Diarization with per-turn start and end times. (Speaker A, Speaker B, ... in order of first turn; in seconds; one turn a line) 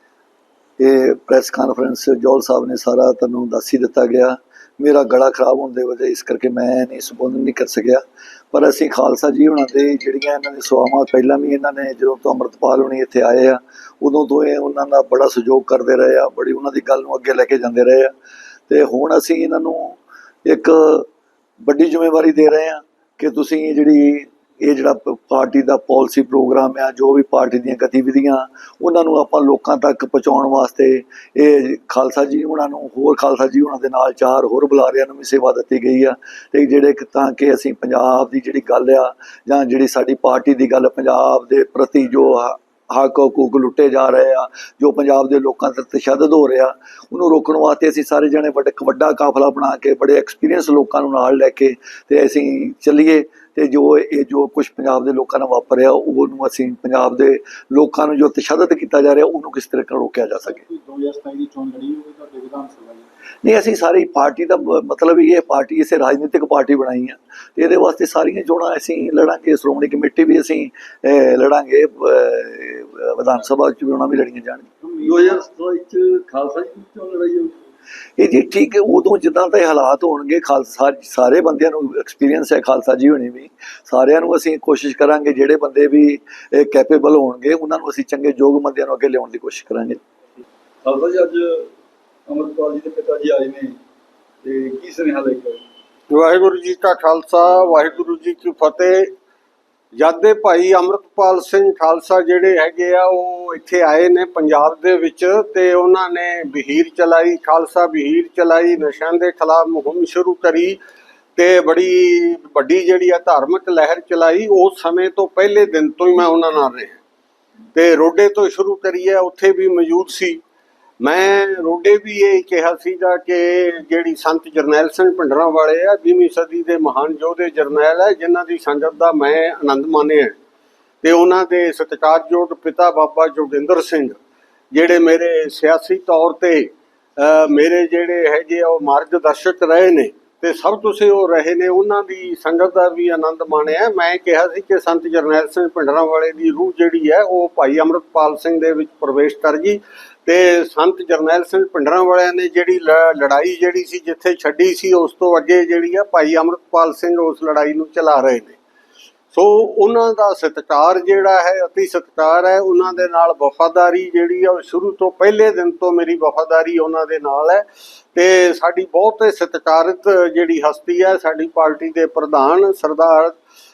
Speaker A: 0.8-18.1
Speaker A: 18.7-21.1
Speaker A: 21.6-60.6
Speaker B: 60.5-63.1
Speaker A: 63.4-74.7
Speaker C: 74.8-77.6
Speaker A: 78.2-90.0
Speaker C: 90.8-91.7
Speaker C: 92.3-93.8
Speaker C: 94.4-95.6
Speaker D: 96.1-99.1
Speaker D: 100.0-110.8
Speaker D: 111.4-117.0
Speaker D: 117.8-120.4
Speaker D: 121.0-130.4
Speaker D: 131.0-134.2
Speaker D: 134.7-158.6
Speaker D: 159.3-167.6
Speaker D: 168.2-173.3